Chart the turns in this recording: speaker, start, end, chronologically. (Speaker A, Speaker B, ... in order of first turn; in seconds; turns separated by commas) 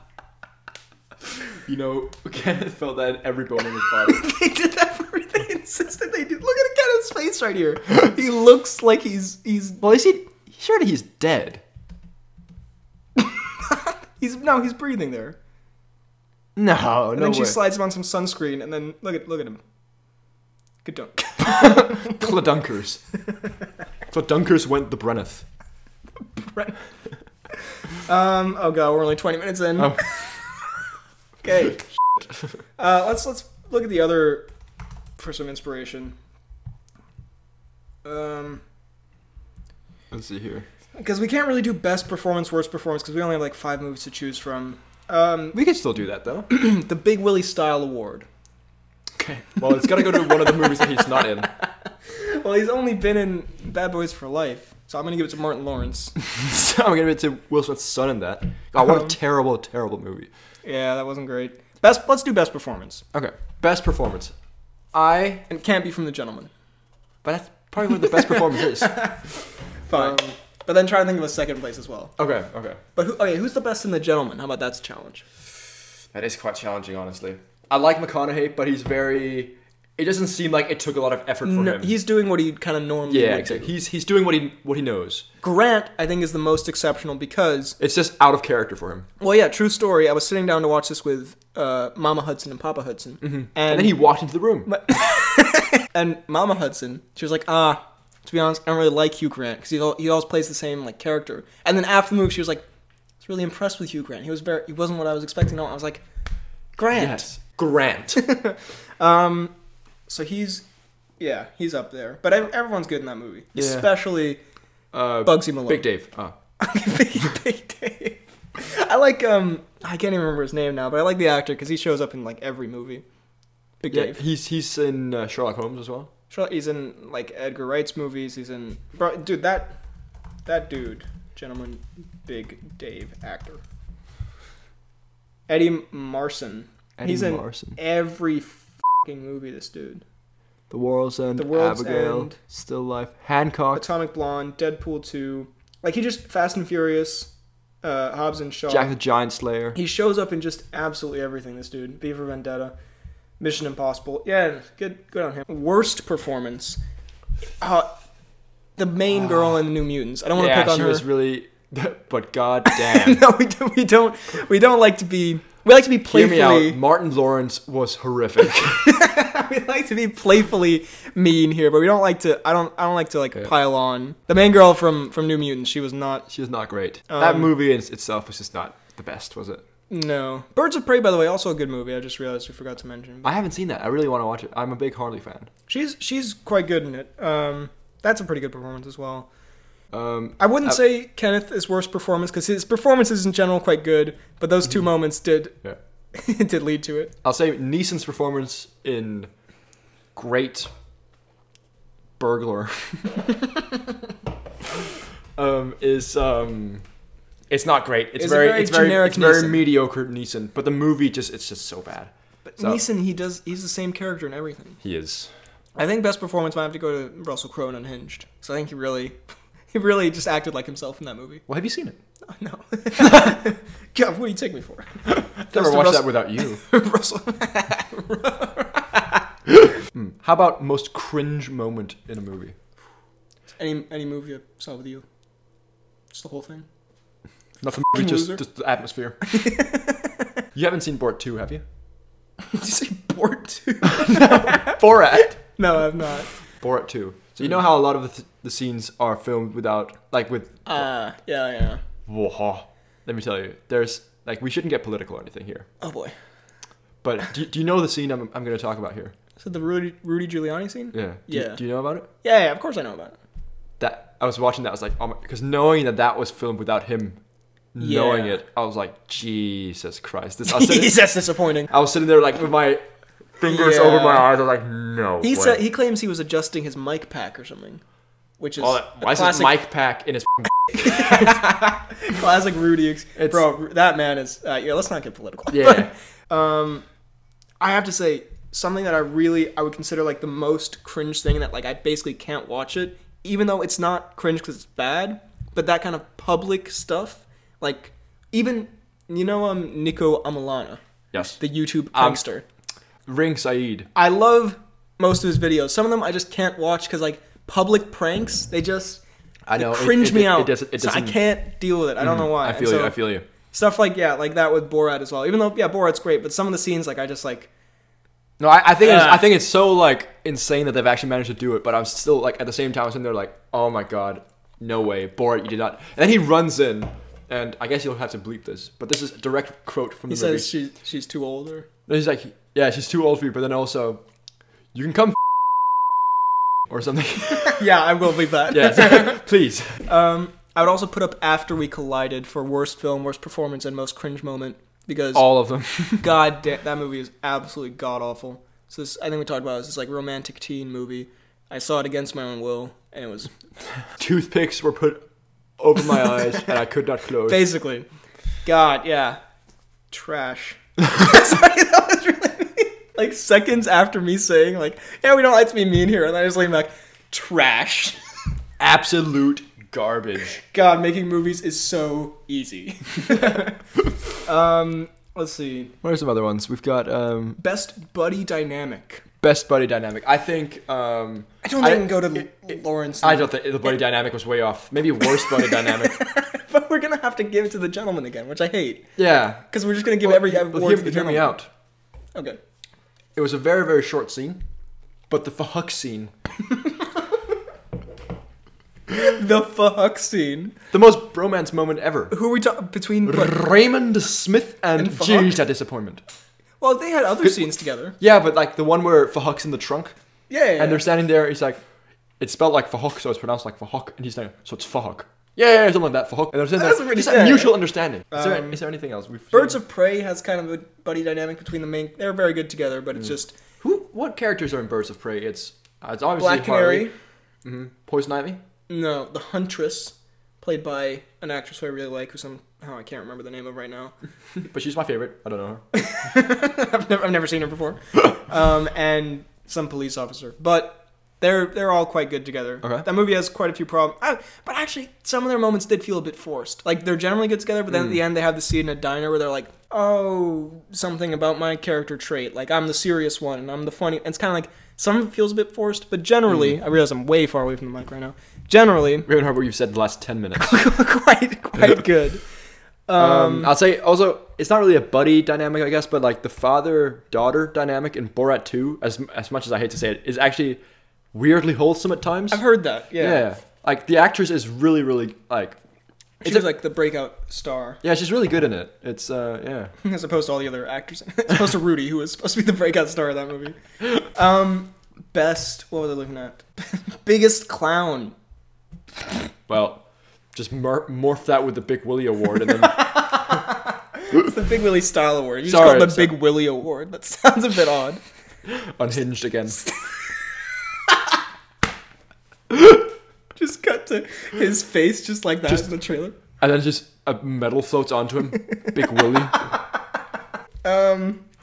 Speaker A: 1.6-4.3, Speaker B: 4.0-9.8, Speaker A: 9.8-11.6, Speaker B: 13.2-15.4, Speaker A: 16.6-17.6, Speaker B: 17.1-19.6, Speaker B: 20.8-22.3, Speaker A: 21.4-23.0, Speaker A: 24.1-25.4, Speaker B: 26.4-26.8, Speaker B: 28.0-30.3, Speaker A: 29.8-30.1, Speaker B: 31.4-31.9, Speaker B: 32.8-34.5, Speaker B: 35.2-36.1, Speaker B: 38.0-38.6, Speaker A: 40.1-40.6, Speaker B: 41.0-45.6, Speaker A: 45.5-46.5, Speaker B: 46.5-48.3, Speaker A: 49.2-51.5, Speaker B: 49.8-56.1, Speaker A: 56.2-60.3, Speaker B: 58.8-59.1, Speaker B: 60.6-63.0, Speaker A: 63.1-64.3, Speaker A: 64.9-65.4, Speaker B: 65.5-66.5, Speaker A: 67.2-69.1, Speaker B: 67.9-69.2, Speaker B: 69.9-72.1, Speaker A: 69.9-70.3, Speaker A: 72.2-72.8, Speaker B: 73.0-75.2, Speaker A: 76.1-82.0, Speaker B: 81.4-83.7, Speaker A: 83.1-85.2, Speaker B: 85.4-87.8, Speaker A: 87.8-89.1, Speaker B: 89.2-94.0, Speaker A: 93.2-94.7, Speaker B: 94.7-102.6, Speaker B: 103.2-106.0, Speaker B: 106.8-107.3, Speaker A: 106.9-108.2, Speaker B: 108.1-109.5, Speaker B: 110.1-110.7, Speaker B: 111.2-114.4, Speaker A: 113.5-113.9, Speaker A: 114.9-116.3, Speaker B: 115.2-115.8, Speaker B: 116.6-123.0, Speaker B: 123.8-124.2, Speaker A: 123.9-126.1, Speaker B: 126.3-129.8, Speaker B: 130.4-133.6, Speaker B: 135.5-140.0, Speaker A: 137.0-137.8, Speaker A: 140.7-143.8, Speaker B: 141.3-142.4, Speaker B: 143.7-147.3, Speaker B: 147.8-148.9, Speaker A: 148.7-149.8, Speaker B: 149.7-152.7, Speaker B: 153.4-156.8, Speaker B: 157.6-157.9, Speaker B: 158.8-161.1, Speaker A: 160.3-163.2, Speaker B: 162.7-166.8, Speaker A: 166.1-169.0, Speaker B: 168.7-176.3, Speaker A: 176.3-179.6, Speaker B: 177.1-177.5, Speaker B: 179.9-183.3, Speaker A: 183.2-185.5, Speaker B: 185.7-189.3, Speaker A: 189.9-190.8, Speaker B: 190.4-195.6, Speaker B: 196.1-197.1, Speaker A: 197.2-199.3, Speaker A: 200.1-200.7, Speaker A: 202.2-203.3, Speaker A: 205.3-206.8, Speaker A: 207.5-212.8, Speaker B: 208.2-209.7, Speaker B: 212.4-214.8, Speaker A: 214.8-215.3, Speaker B: 215.8-219.2, Speaker B: 219.7-221.4, Speaker A: 221.5-222.0, Speaker B: 222.3-229.2, Speaker A: 225.1-226.6, Speaker A: 229.6-232.6, Speaker B: 233.6-235.0, Speaker B: 236.1-236.7, Speaker A: 237.6-239.2, Speaker B: 237.9-238.4, Speaker B: 239.3-240.0, Speaker A: 240.5-241.6, Speaker B: 242.4-246.3, Speaker A: 243.9-245.4, Speaker A: 246.6-250.8, Speaker B: 250.7-251.8, Speaker A: 252.1-255.7, Speaker B: 255.8-256.1, Speaker A: 257.0-259.1, Speaker B: 259.4-261.6, Speaker A: 260.9-262.1, Speaker B: 262.2-263.2, Speaker A: 263.8-267.2, Speaker A: 267.7-271.0, Speaker B: 267.8-268.4, Speaker B: 270.4-271.7, Speaker A: 271.7-272.8, Speaker A: 273.4-275.6, Speaker B: 273.4-274.3, Speaker B: 275.2-277.8, Speaker B: 278.4-279.6, Speaker A: 278.6-281.4, Speaker B: 280.8-286.8, Speaker A: 283.1-283.5, Speaker A: 285.5-285.9, Speaker B: 287.6-300.8, Speaker A: 301.1-301.4, Speaker B: 301.4-302.4, Speaker A: 301.9-302.2, Speaker A: 303.1-303.9, Speaker B: 303.9-309.0, Speaker A: 309.5-311.2, Speaker B: 309.5-313.0, Speaker A: 312.0-313.2, Speaker B: 313.5-317.5, Speaker A: 318.4-330.5, Speaker B: 318.8-319.3, Speaker B: 330.1-331.7, Speaker A: 331.9-334.0, Speaker A: 334.7-335.4, Speaker A: 336.6-337.6, Speaker B: 337.4-339.2, Speaker A: 338.5-339.9, Speaker B: 339.9-345.2, Speaker A: 345.1-346.1, Speaker B: 345.9-353.3, Speaker A: 354.0-355.0, Speaker A: 355.6-357.5, Speaker B: 357.3-357.9, Speaker B: 358.4-359.2, Speaker B: 359.9-368.0, Speaker A: 368.6-370.4, Speaker B: 370.4-373.6, Speaker B: 374.2-375.7, Speaker A: 375.8-377.4, Speaker B: 377.4-379.0, Speaker A: 379.2-382.3, Speaker B: 381.4-383.4, Speaker A: 383.0-386.0, Speaker B: 385.1-388.9, Speaker A: 389.0-389.4, Speaker B: 389.5-391.4, Speaker A: 390.0-391.5, Speaker A: 393.1-394.4, Speaker A: 395.1-396.1, Speaker B: 399.0-400.6, Speaker A: 400.7-402.1, Speaker B: 402.1-403.4, Speaker A: 403.1-406.0, Speaker B: 404.8-405.4, Speaker B: 406.6-407.9, Speaker A: 408.0-409.9, Speaker B: 410.3-410.9, Speaker A: 410.6-411.6, Speaker A: 412.2-419.6, Speaker B: 416.5-418.6, Speaker B: 419.3-423.4, Speaker A: 423.6-426.9, Speaker B: 426.2-426.9, Speaker A: 427.4-428.4, Speaker B: 428.7-433.9, Speaker A: 434.4-435.6, Speaker B: 435.7-459.1, Speaker A: 447.7-448.0, Speaker A: 456.3-456.6, Speaker A: 459.1-460.6, Speaker B: 460.4-462.2, Speaker B: 462.9-463.5, Speaker A: 463.0-470.6, Speaker A: 471.1-472.4, Speaker B: 472.3-473.2, Speaker A: 473.0-475.6, Speaker B: 476.2-477.8, Speaker A: 476.2-476.6, Speaker A: 477.8-479.7, Speaker B: 479.8-488.1, Speaker A: 489.5-493.4, Speaker B: 493.1-493.5, Speaker B: 494.0-498.0, Speaker A: 495.4-496.1, Speaker A: 498.4-499.6, Speaker B: 503.4-506.2, Speaker A: 506.4-509.4, Speaker B: 510.6-511.2